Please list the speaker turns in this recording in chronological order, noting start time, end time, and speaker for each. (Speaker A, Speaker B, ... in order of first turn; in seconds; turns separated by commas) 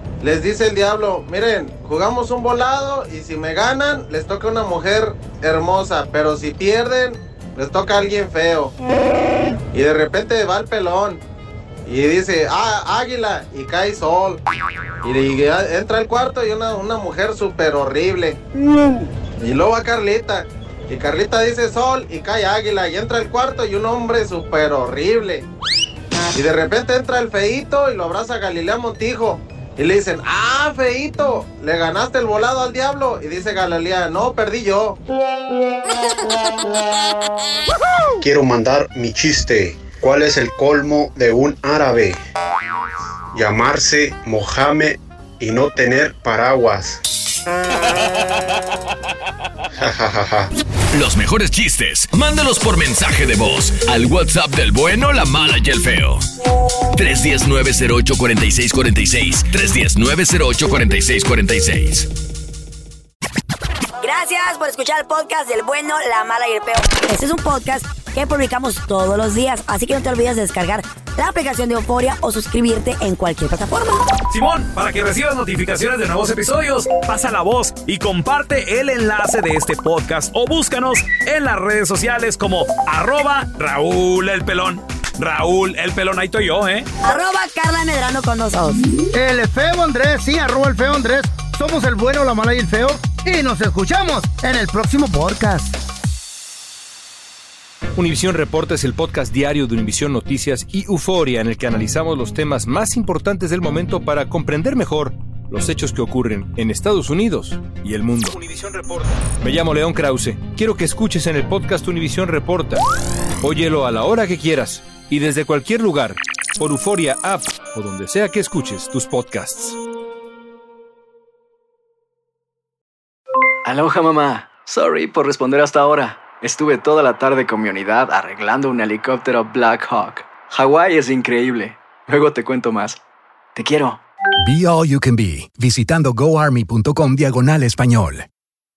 Speaker A: 0.2-8.7, Speaker A: 9.7-11.2, Speaker A: 11.8-14.4, Speaker A: 15.0-18.4, Speaker A: 19.4-25.4, Speaker A: 26.3-35.0, Speaker B: 38.2-42.2, Speaker B: 43.3-47.0, Speaker B: 49.8-50.5, Speaker C: 50.9-56.2, Speaker C: 56.9-62.1, Speaker D: 64.0-74.1, Speaker E: 74.3-86.9, Speaker D: 87.0-88.8, Speaker F: 89.1-95.8, Speaker G: 98.0-112.8, Speaker G: 113.4-119.8, Speaker H: 123.6-133.0, Speaker H: 133.6-134.0, Speaker I: 134.4-138.3